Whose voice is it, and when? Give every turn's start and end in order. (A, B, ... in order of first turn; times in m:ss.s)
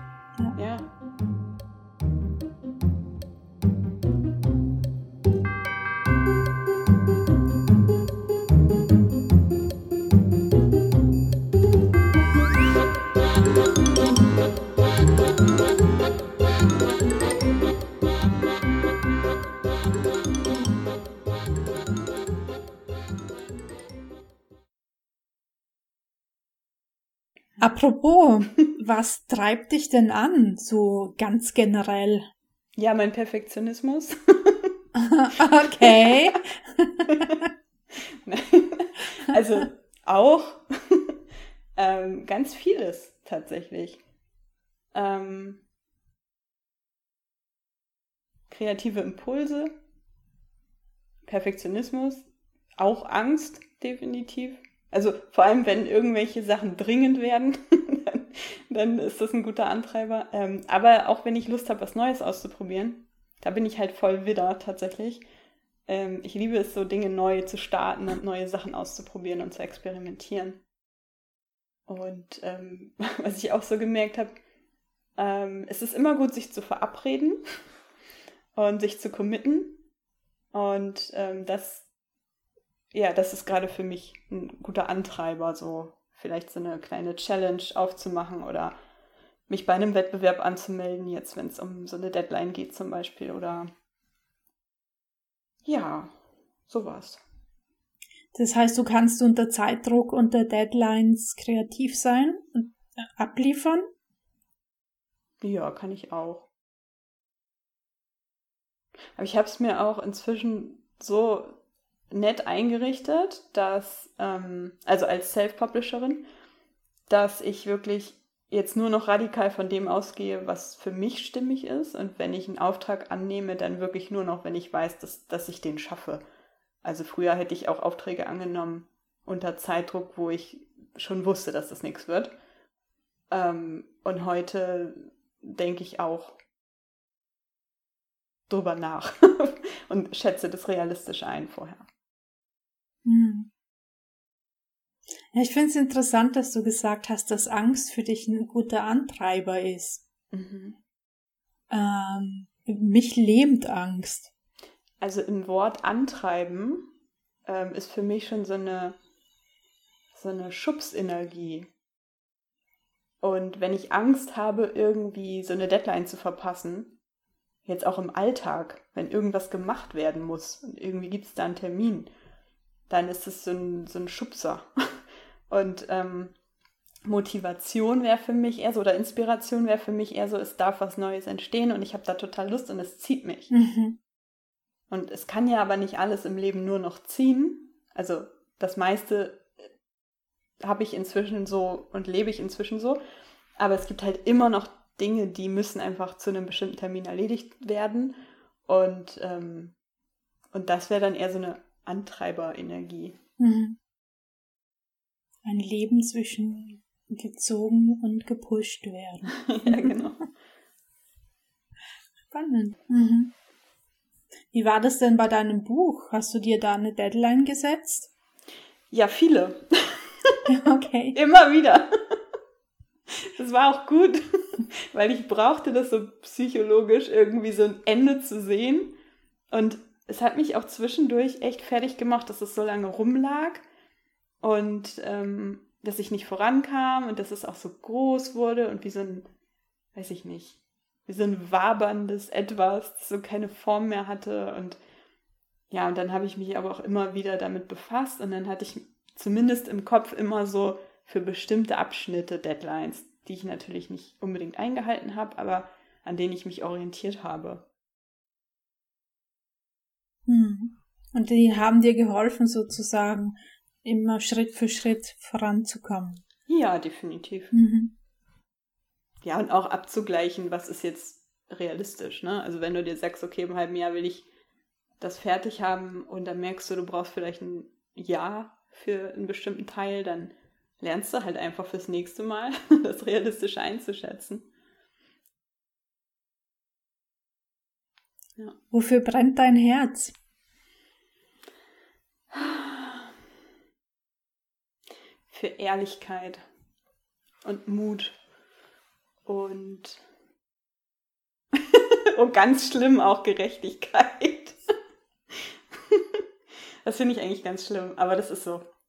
0:00.6-0:00.9 A
0:27.6-0:32.3 B
0:32.8-0:34.8 A
0:35.0-0:37.4 B
0:35.5-0:36.3 A
0:37.1-0:41.2 A
0:41.8-0:44.0 A
0:44.9-0:45.6 A
0:48.5-0:49.8 A
0:51.2-1:05.3 A
1:05.9-1:10.6 A
1:11.9-1:14.4 A
1:15.2-1:17.4 A
1:18.6-1:19.8 A
1:20.5-1:21.9 A
1:22.9-1:28.8 A
1:29.5-1:33.7 A
1:35.6-1:36.1 A
1:36.7-1:37.2 A
1:38.3-1:43.8 B
1:45.4-1:46.5 A
1:49.2-1:56.2 A
1:57.1-2:06.2 A
2:06.8-2:12.3 A
2:13.3-2:16.4 A
2:18.5-2:21.9 A
2:23.0-2:23.5 B
2:25.3-2:30.0 B
2:30.3-2:30.8 A
2:31.7-2:34.3 B
2:35.0-2:36.9 A
2:37.5-2:39.0 A
2:40.2-2:41.7 A
2:43.2-2:47.0 A
2:47.6-2:52.1 A
2:52.9-2:55.0 A
2:55.5-2:56.4 A
2:57.1-3:03.5 A
3:03.5-3:04.0 B
3:04.9-3:09.5 A
3:10.6-3:13.0 A
3:13.6-3:19.8 A
3:20.5-3:23.2 A
3:23.4-3:23.8 B
3:25.4-3:30.1 B
3:29.3-3:30.3 A
3:32.3-3:33.3 B
3:34.5-3:38.1 B
3:38.9-3:40.5 A
3:40.5-3:41.2 B
3:41.1-3:41.9 A
3:43.2-3:49.0 A
3:49.5-3:53.6 A
3:54.4-3:59.3 A
4:00.0-4:04.8 A
4:05.7-4:17.7 A
4:20.3-4:26.2 B
4:26.5-4:27.6 A
4:27.5-4:27.9 B
4:29.2-4:34.3 A
4:35.0-4:44.5 A
4:48.7-4:50.2 B
4:52.3-4:53.1 A
4:55.3-4:56.4 A
4:57.4-4:58.2 A
4:59.3-5:00.0 A
5:01.5-5:04.6 A
5:05.7-5:06.2 A
5:06.8-5:08.7 A